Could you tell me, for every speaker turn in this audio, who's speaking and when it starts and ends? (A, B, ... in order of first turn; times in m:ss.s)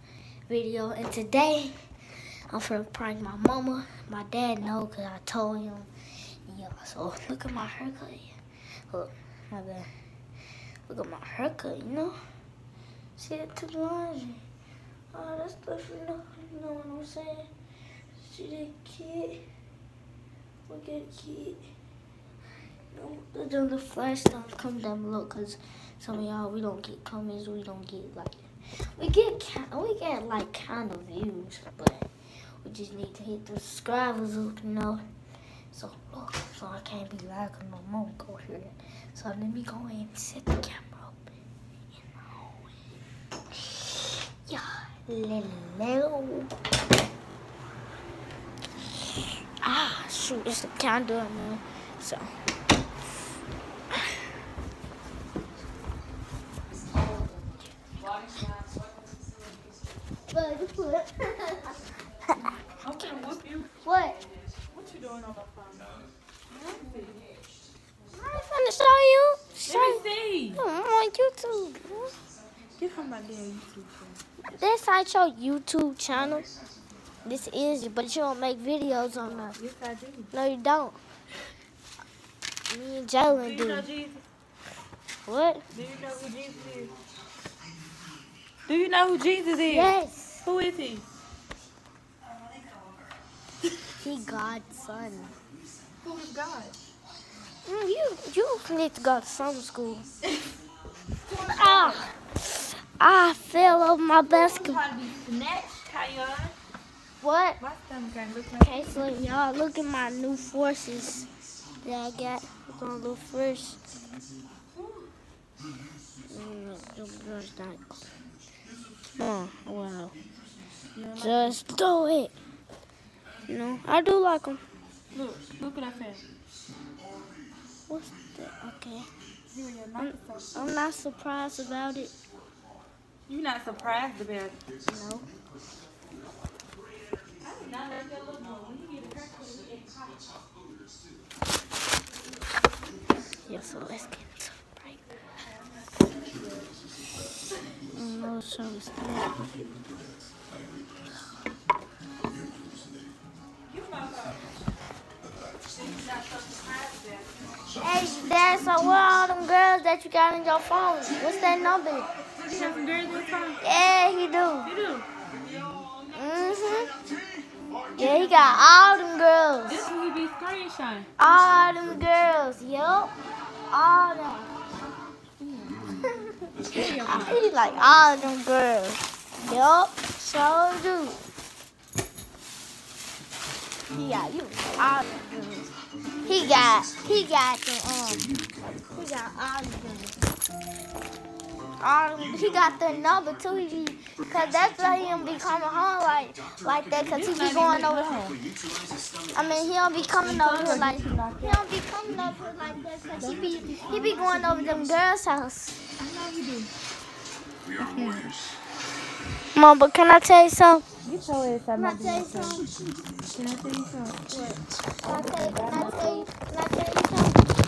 0:00.5-0:01.7 A
0:02.5-0:05.9 A
0:06.5-0:08.4 A
0:08.9-0:09.9 A
0:10.9-0:12.2 A
0:13.2-0:14.4 A
0:15.1-0:17.5 A
0:18.2-0:19.4 A
0:20.7-0:21.7 A
0:22.9-0:32.1 A
0:32.6-0:35.0 A
0:35.7-0:41.4 A
0:41.9-0:42.7 A
0:44.4-0:46.5 A
0:49.6-0:52.3 A
1:00.3-1:01.8 A
1:02.3-1:02.5 A
1:02.8-1:03.7 B
1:03.8-1:04.2 A
1:04.7-1:06.0 B
1:06.5-1:07.2 B
1:08.1-1:10.0 A
1:09.7-1:10.6 B
1:10.6-1:12.2 A
1:12.8-1:14.2 B
1:14.4-1:16.5 A
1:17.2-1:19.6 A
1:19.1-1:20.3 B
1:20.3-1:21.0 A
1:22.7-1:23.9 A
1:23.3-1:24.2 B
1:25.3-1:25.6 A
1:25.7-1:26.9 B
1:28.7-1:29.9 B
1:29.7-1:30.4 A
1:30.4-1:31.0 B
1:34.0-1:35.4 A
1:36.0-1:36.8 B
1:37.6-1:40.1 A
1:41.3-1:42.1 B
1:41.3-1:42.1 A
1:43.0-1:44.8 A
1:44.3-1:46.6 B
1:47.2-1:47.6 A
1:47.6-1:48.9 B
1:48.6-1:51.3 A
1:51.8-1:53.8 A
1:54.8-1:55.1 B
1:56.3-1:58.0 A
1:59.2-2:00.2 A
2:00.9-2:01.6 B
2:01.2-2:02.3 A
2:03.5-2:04.6 A
2:05.1-2:06.2 B
2:07.9-2:09.1 A
2:09.5-2:10.6 B
2:10.0-2:12.2 A
2:13.3-2:14.6 B
2:14.9-2:15.3 A
2:17.4-2:20.2 B
2:23.4-2:25.1 A
2:26.1-2:26.6 B
2:27.9-2:29.7 A
2:33.7-2:34.4 B
2:35.7-2:37.6 B
2:37.8-2:42.1 A
2:42.4-2:43.6 B
2:43.6-2:44.7 A
2:44.6-2:45.1 B
2:46.1-2:47.0 A
2:48.0-2:49.8 A
2:49.7-2:51.1 B
2:51.2-2:53.1 A
2:53.7-2:54.5 A
2:55.4-2:55.8 B
2:56.0-3:01.2 A
2:56.6-2:57.5 B
3:03.9-3:05.7 A
3:06.2-3:08.3 A
3:08.9-3:10.2 A
3:11.8-3:18.3 A
3:17.0-3:18.4 B
3:19.3-3:25.8 A
3:20.2-3:21.7 B
3:23.2-3:24.8 B
3:26.0-3:26.7 B
3:27.8-3:28.3 B
3:29.6-3:30.8 A
3:31.0-3:32.7 B
3:31.8-3:32.7 A
3:33.3-3:36.2 B
3:34.3-3:37.4 A